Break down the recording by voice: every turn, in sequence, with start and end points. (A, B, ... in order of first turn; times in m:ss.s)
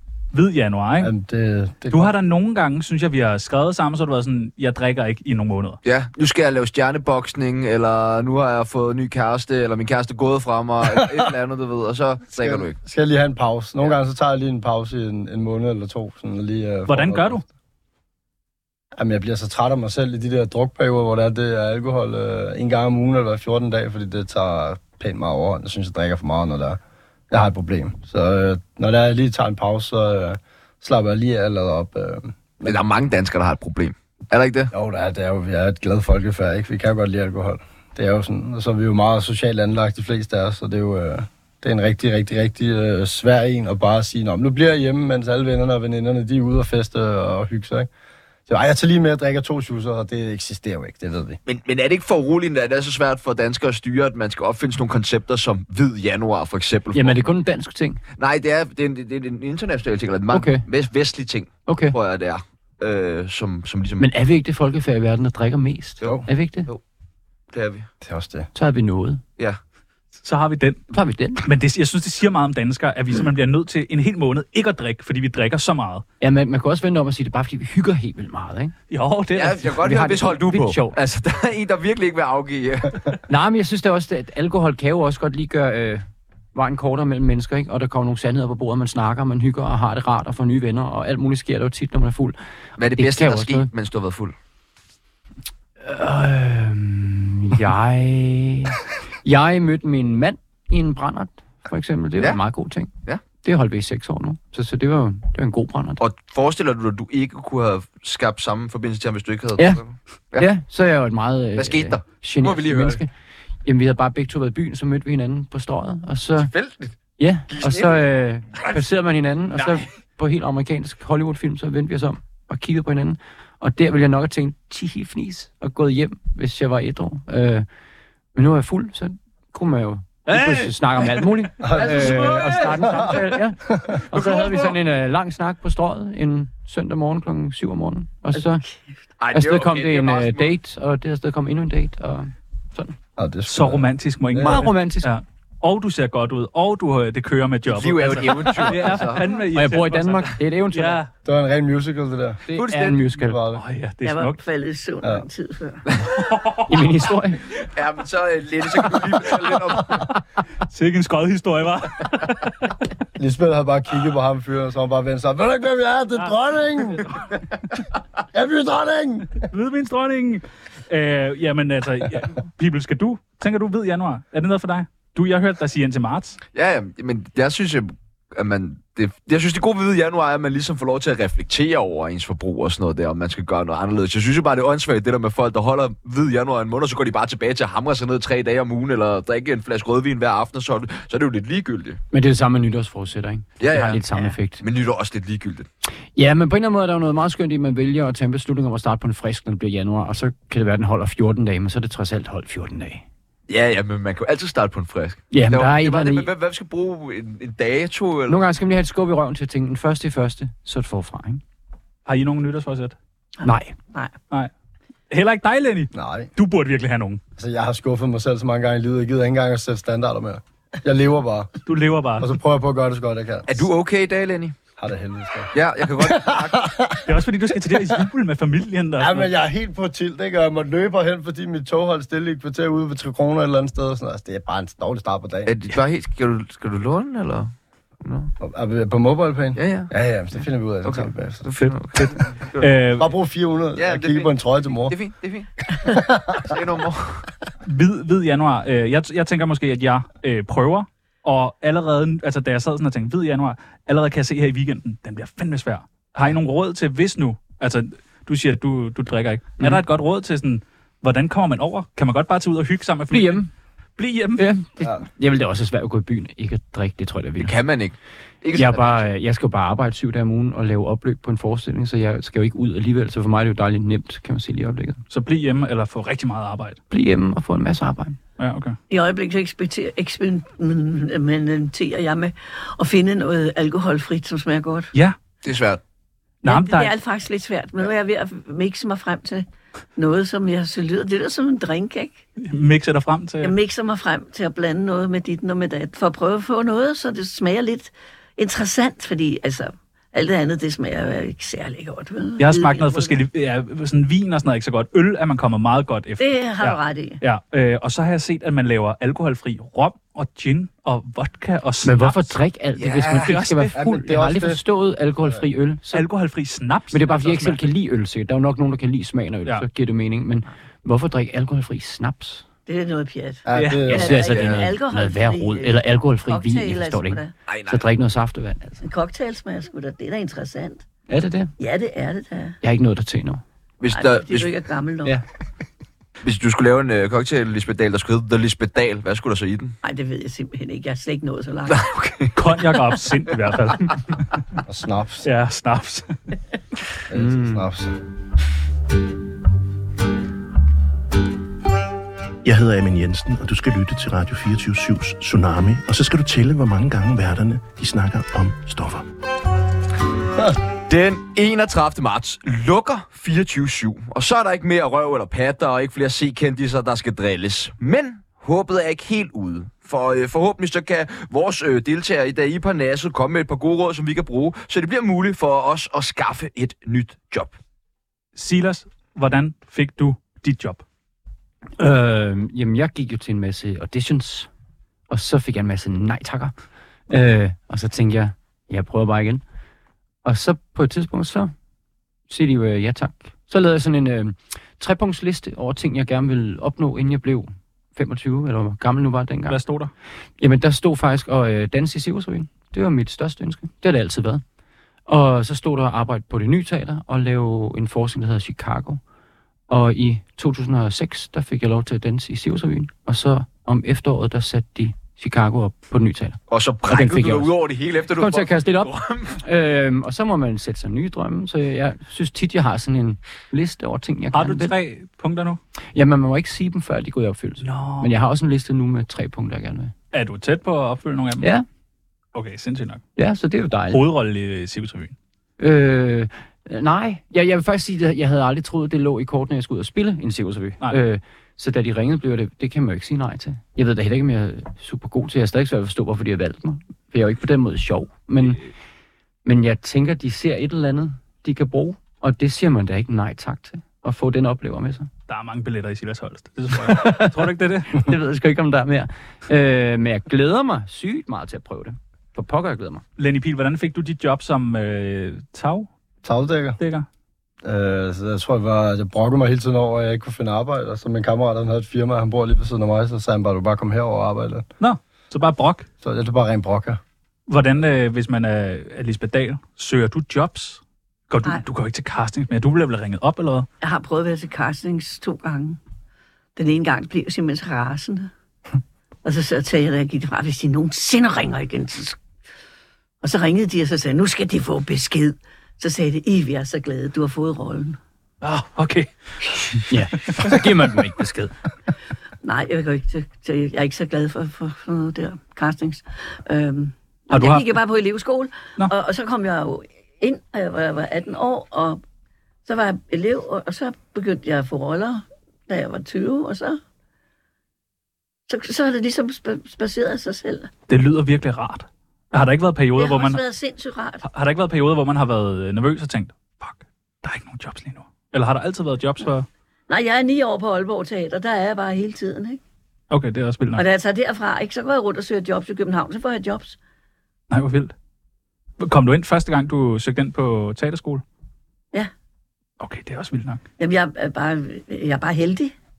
0:00.3-0:01.1 A
0:01.0-0:02.1 B
0:01.9-0:05.8 A
0:05.8-0:12.8 C
0:12.4-0:17.4 B
0:16.9-0:17.4 A
0:19.0-0:26.8 B
0:27.3-0:32.8 B
0:32.6-0:34.7 C
0:34.7-0:47.9 B
0:48.5-0:51.4 B
0:51.4-0:57.2 C
0:56.9-0:58.0 D
0:58.2-1:04.1 C
1:00.3-1:00.6 D
1:01.7-1:02.0 D
1:04.0-1:06.7 D
1:06.0-1:06.8 C
1:07.5-1:07.9 C
1:08.0-1:08.5 B
1:08.5-1:09.2 D
1:10.2-1:10.8 A
1:10.9-1:11.4 D
1:11.4-1:16.0 A
1:16.2-1:18.7 D
1:18.9-1:19.8 A
1:19.3-1:23.2 C
1:19.7-1:21.0 D
1:23.3-1:32.4 D
1:32.8-1:34.3 C
1:32.9-1:33.7 D
1:35.8-1:42.9 D
1:43.4-1:46.0 D
1:46.0-1:50.5 C
1:49.6-1:49.8 D
1:50.4-1:53.1 D
1:51.6-1:53.0 C
1:53.6-1:56.5 D
1:56.4-1:56.9 C
1:57.2-2:07.7 D
1:57.5-1:58.0 C
1:59.6-1:59.8 C
2:08.3-2:18.6 D
2:10.3-2:11.1 A
2:11.6-2:12.4 B
2:11.8-2:13.0 C
2:14.1-2:14.8 C
2:19.2-2:20.5 C
2:19.3-2:23.0 D
2:23.2-2:24.7 B
2:23.5-2:31.1 A
2:24.4-2:25.1 D
2:27.7-2:29.3 C
2:28.5-2:31.0 D
2:31.2-2:32.4 B
2:32.5-2:33.4 D
2:32.5-2:33.0 C
2:33.2-2:33.6 B
2:33.5-2:34.4 A
2:34.0-2:35.8 E
2:35.9-2:36.1 C
2:36.2-2:36.8 A
2:36.7-2:37.4 D
2:37.7-2:40.1 C
2:40.7-2:42.7 A
2:43.2-2:47.2 B
2:48.3-2:49.5 B
2:49.4-2:56.4 A
2:56.5-3:12.0 C
3:12.1-3:14.6 D
3:13.6-3:14.0 C
3:14.6-3:15.7 C
3:16.1-3:23.0 D
3:23.5-3:28.4 C
3:25.3-3:26.3 D
3:28.3-3:31.4 D
3:32.0-3:32.9 A
3:33.4-3:34.1 E
3:33.4-3:33.8 D
3:35.1-3:37.2 A
3:35.9-3:36.3 B
3:37.4-3:41.5 B
3:41.6-3:42.3 A
3:42.2-3:43.7 B
3:43.5-3:44.5 C
3:44.8-3:47.1 B
3:45.5-3:46.6 C
3:47.0-3:49.3 A
3:47.7-3:48.0 B
3:49.0-3:55.5 B
3:55.4-3:57.5 C
3:58.0-3:58.3 C
3:58.4-4:01.4 B
3:59.5-3:59.9 C
4:00.8-4:02.7 C
4:02.6-4:03.1 A
4:03.0-4:04.9 B
4:03.8-4:04.3 C
4:04.9-4:05.5 C
4:05.7-4:06.6 B
4:06.4-4:07.3 C
4:07.6-4:24.4 A
4:23.1-4:23.5 D
4:24.4-4:27.6 D
4:27.4-4:29.0 C
4:28.5-4:35.0 D
4:35.1-4:36.8 A
4:36.9-4:38.2 D
4:38.4-4:38.8 A
4:38.9-4:44.9 E
4:45.4-4:45.8 C
4:46.4-4:46.9 A
4:46.4-4:52.2 E
4:52.4-4:53.5 A
4:53.4-5:03.2 E
5:02.4-5:12.3 A
5:06.2-5:07.2 E
5:11.8-5:16.1 D
5:12.8-5:13.3 C
5:13.2-5:13.7 A
5:13.7-5:14.6 B
5:15.9-5:17.6 A
5:16.9-5:22.4 D
5:22.7-5:27.3 E
5:23.5-5:24.2 B
5:23.5-5:23.8 A
5:23.8-5:28.8 D
5:24.1-5:24.6 C
5:27.5-5:27.8 C
5:28.8-5:30.8 E
5:31.1-5:31.5 D
5:31.6-5:32.6 E
5:32.6-5:33.4 D
5:33.8-5:34.5 C
5:33.9-5:35.2 E
5:36.2-5:39.7 C
5:39.8-5:41.8 E
5:41.7-5:42.3 C
5:42.3-5:44.4 A
5:44.7-5:45.3 B
5:45.2-5:46.1 A
5:47.1-5:47.9 B
5:47.1-5:47.7 D
5:52.4-5:59.0 F
6:00.9-6:17.5 C
6:18.3-6:20.8 A
6:21.8-6:24.5 D
6:25.1-6:26.5 D
6:27.1-6:29.4 D
6:30.2-6:31.5 D
6:32.3-6:39.6 D
6:39.5-6:39.9 A
6:40.4-6:44.4 D
6:45.1-6:49.0 D
6:49.7-6:57.6 D
6:56.5-6:59.4 C
6:58.1-7:04.7 D
7:04.3-7:05.6 A
7:05.9-7:09.9 D
7:07.6-7:08.1 A
7:10.1-7:11.5 A
7:11.4-7:11.6 D
7:12.3-7:13.0 A
7:13.2-7:14.0 D
7:13.9-7:15.1 A
7:15.6-7:28.7 D
7:29.4-7:35.1 D
7:35.3-7:38.0 A
7:36.8-7:43.0 D
7:43.2-7:45.9 A
7:46.2-7:46.8 B
7:46.8-7:47.0 A
7:47.6-7:54.6 B
7:54.8-7:55.8 A
7:56.0-7:57.0 B
7:57.5-8:03.7 A
8:03.8-8:05.8 E
8:06.6-8:08.3 E
8:09.2-8:12.2 E
8:13.2-8:18.0 E
8:18.4-8:20.6 A
8:19.9-8:21.5 D
8:22.4-8:32.0 E
8:27.3-8:27.7 A
8:32.6-8:36.8 E
8:38.5-8:40.7 E
8:40.9-8:43.4 A
8:43.0-8:44.2 E
8:44.2-8:49.5 A
8:49.9-8:52.6 E
8:53.1-8:53.8 A
8:53.8-8:56.8 E
8:57.5-8:57.9 A
8:58.8-9:01.2 A
9:02.8-9:03.6 A
9:03.8-9:05.7 E